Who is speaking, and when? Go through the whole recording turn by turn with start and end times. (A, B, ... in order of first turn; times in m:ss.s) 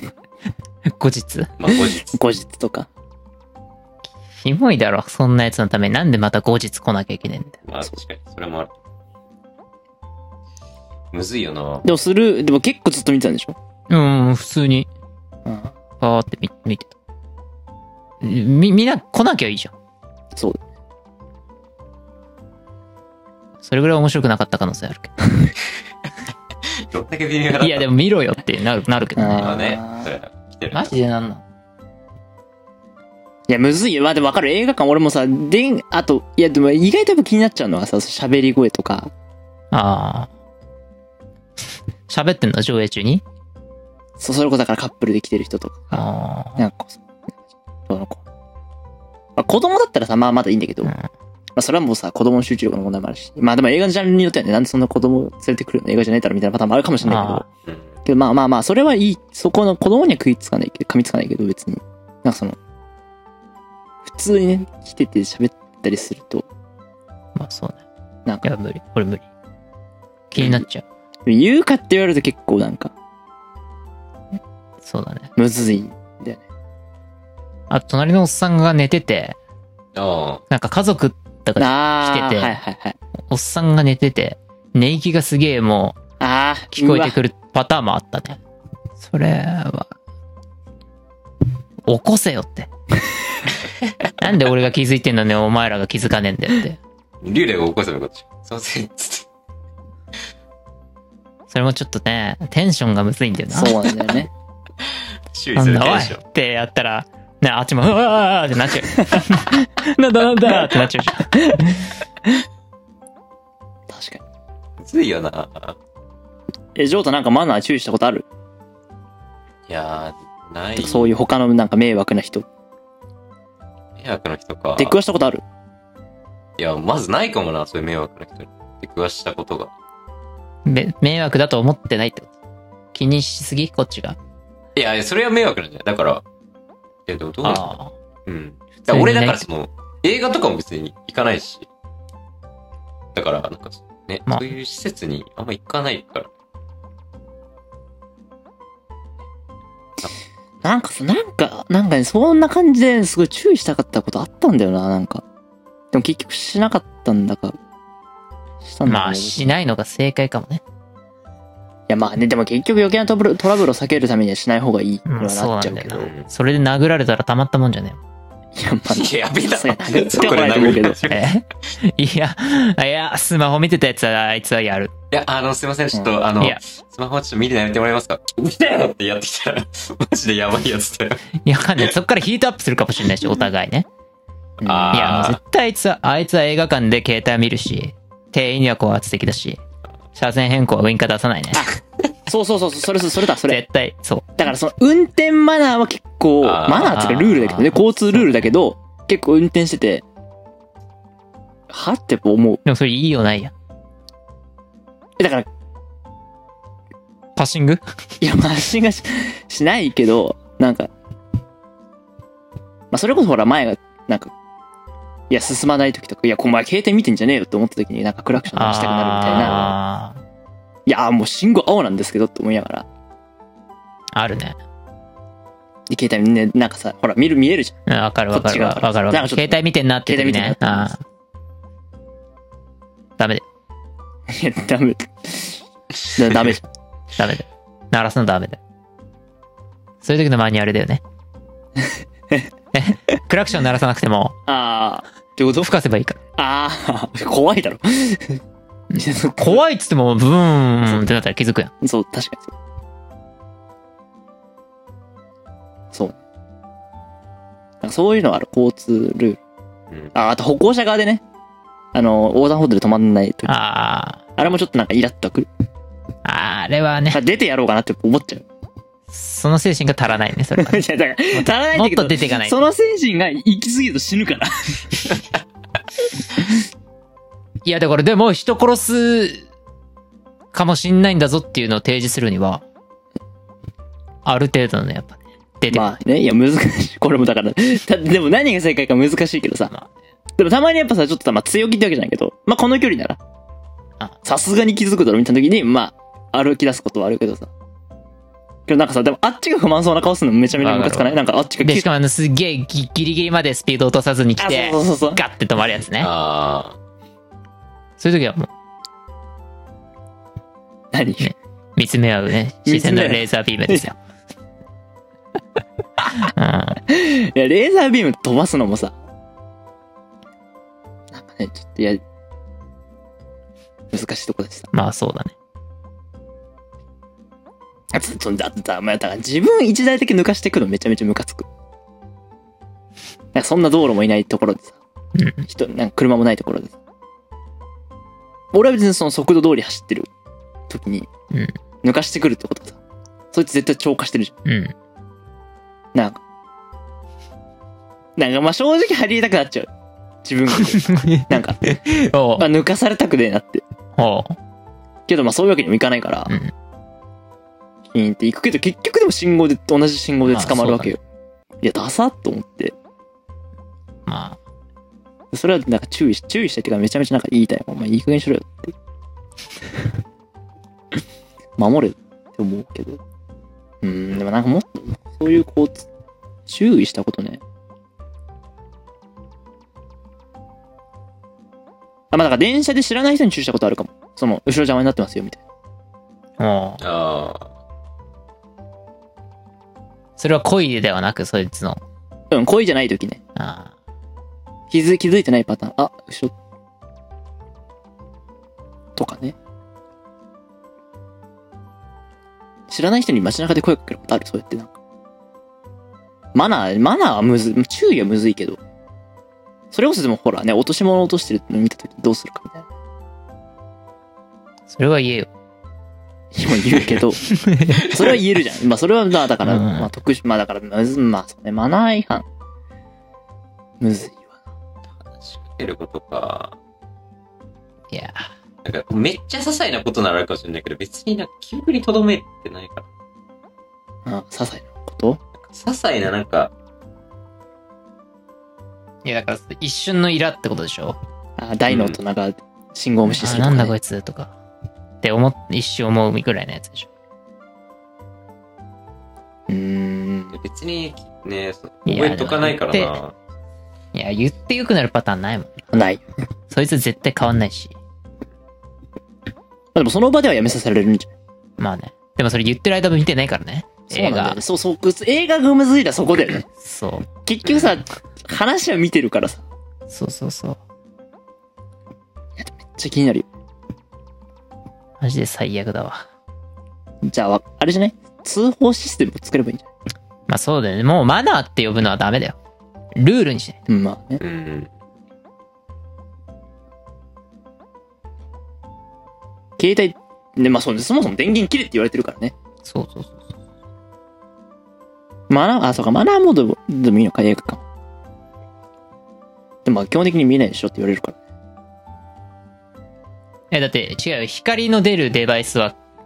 0:00.9-0:01.5 A
0:01.6-0:02.2 B
0:01.8-0:02.9 C
0:04.4-0:07.6 A
0:07.6-0:08.7 B
0:11.1-0:11.8 B
0:11.8-0:13.6 C
0:13.9-0:14.9 A
0:15.4-0:15.7 C
0:16.0-0:16.9 A
0:18.2-0:19.7 A
0:20.3-0:20.6 C
0:23.6-0:25.1 A
0:26.8-0:27.9 B
0:27.6-0:29.6 A
0:29.2-0:30.1 C
0:29.4-0:30.9 B
0:30.7-0:31.4 A
0:33.5-0:39.1 C
0:39.7-0:40.3 A
0:42.1-0:43.2 A
0:44.2-0:47.0 C
0:45.9-0:46.6 A
0:47.9-0:48.2 C
0:49.4-0:50.9 C
0:51.6-0:57.4 C
0:57.0-0:57.4 A
0:58.0-1:02.6 C
1:04.0-1:06.4 C
1:07.4-1:07.8 A
1:08.4-1:09.2 A
1:10.3-1:10.8 A
1:11.2-1:12.9 C
1:14.8-1:15.3 A
1:15.4-1:16.4 C
1:17.7-1:19.4 A
1:19.9-1:20.4 B
1:20.5-1:22.6 A
1:21.6-1:23.0 C
1:23.3-1:26.0 A
1:26.2-1:27.2 C
1:26.7-1:28.4 A
1:29.0-1:29.9 A
1:31.9-1:32.7 A
1:34.2-1:36.8 A
1:37.2-1:39.3 B
1:41.5-1:43.9 A
1:43.5-1:44.3 C
1:44.8-1:46.2 B
1:45.6-1:51.8 A
1:51.4-1:51.8 C
1:53.9-1:54.2 C
1:54.8-1:55.8 B
1:56.8-1:58.2 C
1:59.7-2:01.1 B
2:00.8-2:02.4 C
2:04.0-2:05.0 B
2:04.8-2:05.4 C
2:06.6-2:09.7 B
2:10.6-2:12.3 A
2:12.9-2:14.2 A
2:14.7-2:16.2 B
2:17.0-2:17.7 B
2:17.4-2:17.9 A
2:18.2-2:21.7 B
2:18.9-2:19.4 A
2:23.1-2:26.3 B
2:24.3-2:24.5 A
2:30.6-2:35.2 C
2:35.9-2:37.6 C
2:38.6-2:39.5 C
2:38.8-2:40.6 A
2:41.9-2:46.1 C
2:45.1-2:48.0 A
2:45.9-2:46.3 B
2:48.6-2:51.1 C
2:48.9-2:51.3 B
2:51.1-2:54.9 A
2:55.1-3:01.2 B
3:01.4-3:03.9 A
3:04.6-3:05.2 C
3:04.6-3:05.4 B
3:04.9-3:09.6 A
3:10.1-3:11.7 A
3:12.3-3:13.6 C
3:13.5-3:14.3 A
3:14.4-3:20.0 C
3:16.4-3:17.1 B
3:16.7-3:18.5 A
3:21.7-3:22.6 C
3:22.6-3:23.5 A
3:25.2-3:25.5 C
3:27.4-3:27.8 A
3:28.2-3:30.9 C
3:32.9-3:34.3 C
3:35.3-3:39.7 C
3:38.5-3:40.2 A
3:40.9-3:42.8 C
3:44.2-3:44.6 A
3:45.9-3:47.8 C
3:47.9-3:51.0 A
3:48.3-3:50.9 C
3:53.2-3:53.4 A
3:54.3-3:55.6 C
3:56.1-3:56.7 C
3:57.2-3:58.6 A
4:00.0-4:01.0 A
4:02.7-4:04.3 A
4:04.5-4:05.7 C
4:05.6-4:06.2 A
4:06.4-4:08.4 C
4:08.9-4:11.7 A
4:08.9-4:09.6 C
4:11.8-4:12.5 C
4:15.9-4:16.2 C
4:17.8-4:19.4 C
4:20.1-4:21.2 C
4:21.9-4:23.5 C
4:23.5-4:24.2 A
4:24.4-4:25.5 C
4:26.2-4:27.2 A
4:27.1-4:28.4 C
4:29.1-4:32.6 A
4:30.6-4:35.2 C
4:37.6-4:39.5 A
4:40.5-4:42.6 A
4:44.2-4:45.9 A
4:45.7-4:49.7 C
4:50.4-4:53.2 C
4:54.2-4:57.5 C
4:58.7-5:01.9 C
5:00.6-5:06.1 A
5:04.4-5:05.2 C
5:06.0-5:06.8 B
5:08.0-5:08.5 A
5:10.9-5:11.3 C
5:11.2-5:14.0 A
5:12.6-5:13.8 C
5:16.0-5:16.8 A
5:16.9-5:18.9 C
5:21.1-5:22.0 C
5:23.9-5:24.7 C
5:24.7-5:25.3 A
5:27.9-5:31.4 C
5:33.3-5:34.8 C
5:35.2-5:35.4 A
5:35.4-5:36.8 C
5:38.5-5:40.1 C
5:40.7-5:41.1 C
5:41.8-5:42.8 C
5:43.3-5:44.3 C
5:44.4-5:44.7 A
5:45.9-5:46.2 C
5:48.2-5:49.7 C
5:50.2-5:51.6 C
5:50.5-5:52.5 A
5:52.4-5:53.6 C
5:54.0-5:54.4 A
5:55.1-5:56.3 C
5:57.9-6:01.0 C
6:00.3-6:00.9 A
6:01.6-6:02.7 C
6:04.1-6:04.4 A
6:05.3-6:08.7 C
6:11.6-6:13.0 C
6:13.8-6:15.8 C
6:16.5-6:17.4 C
6:22.1-6:25.4 C
6:26.4-6:26.8 A
6:26.8-6:27.5 B
6:30.2-6:31.8 A
6:32.3-6:33.2 C
6:33.4-6:33.7 A
6:34.7-6:36.3 C
6:39.0-6:39.3 C
6:42.7-6:44.7 C
6:46.3-6:48.6 C
6:49.7-6:52.6 C
6:54.7-6:55.3 A
6:56.3-7:02.2 C
6:57.3-6:57.8 A
6:59.4-6:59.9 A
7:03.8-7:04.3 C
7:04.9-7:06.6 B
7:07.9-7:08.3 A
7:08.6-7:12.9 B
7:14.0-7:15.2 C
7:15.4-7:16.5 B
7:19.0-7:21.0 A
7:21.4-7:23.7 C
7:21.7-7:22.0 B
7:23.1-7:24.3 A
7:25.0-7:26.9 A
7:29.5-7:30.4 C
7:30.3-7:33.2 B
7:31.8-7:32.9 A
7:33.9-7:35.6 A
7:35.7-7:36.0 C
7:36.5-7:37.8 A
7:39.7-7:41.1 C
7:41.6-7:44.4 A
7:43.9-7:46.4 C
7:46.6-7:47.1 A
7:47.2-7:49.4 C
7:49.9-7:50.6 A
7:52.4-7:53.3 C
7:55.0-7:56.1 A
7:57.0-7:59.7 C
8:00.3-8:02.4 A
8:03.0-8:03.6 A
8:03.7-8:04.2 C
8:04.2-8:04.7 B
8:09.6-8:12.3 C
8:12.6-8:13.2 A
8:15.3-8:17.6 C
8:19.6-8:21.2 C
8:23.5-8:25.8 A